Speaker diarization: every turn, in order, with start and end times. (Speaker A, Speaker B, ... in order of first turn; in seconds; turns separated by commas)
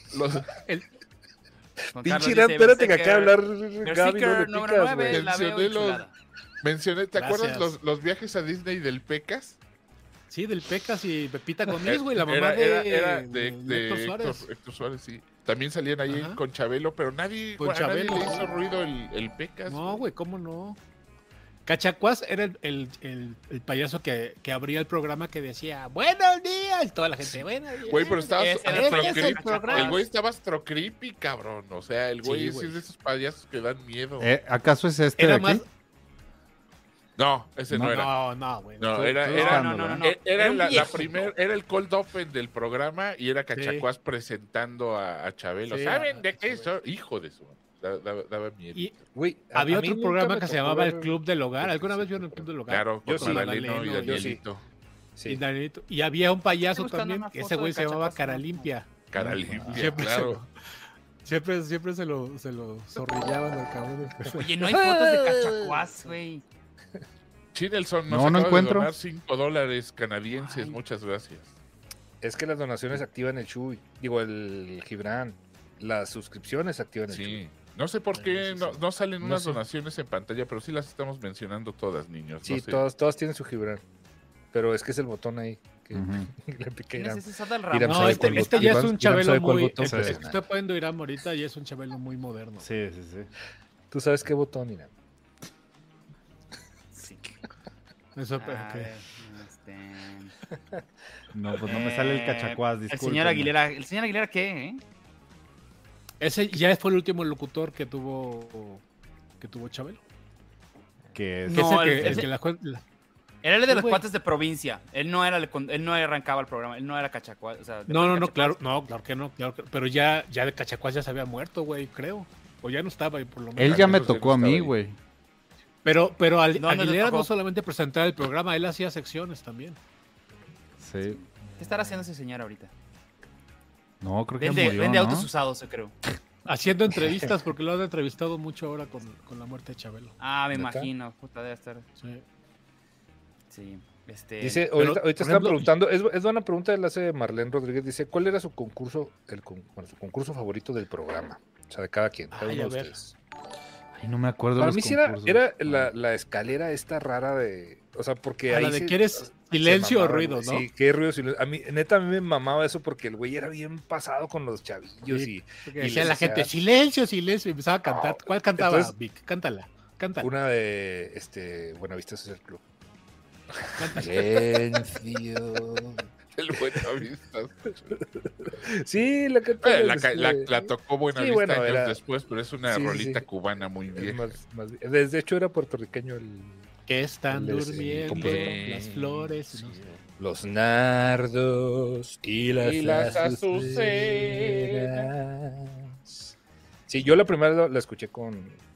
Speaker A: 0.1-0.5, Speaker B: 1.9-6.1, Speaker C: 2.0-5.2, Speaker A: 5.1-6.1, Speaker A: 6.6-9.6, Speaker D: 7.1-7.7, Speaker D: 10.3-14.4, Speaker A: 11.8-20.0, Speaker D: 16.1-16.4, Speaker D: 17.6-18.5, Speaker D: 19.7-20.8, Speaker D: 21.6-30.0, Speaker A: 27.9-34.3, Speaker B: 28.3-30.0, Speaker D: 32.2-32.8, Speaker E: 34.2-35.6, Speaker D: 35.2-35.6, Speaker A: 37.2-38.1, Speaker E: 37.7-38.0, Speaker D: 37.8-39.7, Speaker A: 38.8-49.0, Speaker E: 39.3-40.0, Speaker B: 39.3-41.2, Speaker D: 40.7-41.1, Speaker D: 43.5-43.9, Speaker D: 45.7-46.6, Speaker C: 49.1-52.5, Speaker D: 49.5-54.3, Speaker A: 52.7-54.6, Speaker C: 53.0-54.4, Speaker C: 55.2-55.4, Speaker D: 55.3-60.5, Speaker B: 56.7-58.7, Speaker A: 59.1-60.4, Speaker C: 59.5-60.0, Speaker D: 61.2-64.5, Speaker B: 64.3-66.4, Speaker C: 64.7-65.8, Speaker A: 67.5-71.5, Speaker E: 68.1-68.9, Speaker B: 70.4-70.8, Speaker C: 72.2-77.4, Speaker A: 77.1-82.8, Speaker D: 78.1-78.8, Speaker C: 82.4-83.8, Speaker C: 84.5-90.5, Speaker E: 85.9-86.3, Speaker B: 86.9-88.8, Speaker D: 87.8-92.7, Speaker E: 89.8-90.2, Speaker E: 92.6-93.3, Speaker C: 93.9-94.9, Speaker B: 96.9-97.3, Speaker D: 98.2-98.9, Speaker B: 98.4-100.3, Speaker E: 101.3-103.5, Speaker B: 101.6-104.8, Speaker D: 106.2-108.8, Speaker D: 109.4-110.0, Speaker E: 111.1-112.3, Speaker B: 111.5-112.3, Speaker D: 111.5-112.8, Speaker B: 113.4-118.6, Speaker D: 113.7-114.0, Speaker D: 117.9-124.2, Speaker E: 123.5-125.0, Speaker A: 123.6-124.7, Speaker D: 125.8-129.8, Speaker B: 126.5-127.3, Speaker E: 130.8-131.2, Speaker C: 131.5-132.0, Speaker B: 131.6-132.7, Speaker E: 134.0-135.3, Speaker B: 134.4-135.9, Speaker D: 136.4-140.1, Speaker B: 140.2-141.8, Speaker C: 140.5-140.9, Speaker B: 143.5-144.7, Speaker C: 144.4-153.1, Speaker D: 144.7-145.7, Speaker D: 152.3-152.9, Speaker E: 153.9-155.9, Speaker C: 154.6-166.6, Speaker D: 158.5-160.7, Speaker D: 165.1-170.3, Speaker C: 167.8-168.9, Speaker C: 170.2-172.6, Speaker C: 173.7-176.9, Speaker D: 173.8-174.3, Speaker A: 176.3-178.0, Speaker C: 178.0-182.0, Speaker A: 179.6-184.3, Speaker C: 182.7-183.2, Speaker C: 183.9-186.7, Speaker D: 186.9-189.8, Speaker C: 187.3-196.0, Speaker A: 188.1-188.9, Speaker A: 192.6-195.1, Speaker C: 196.9-198.6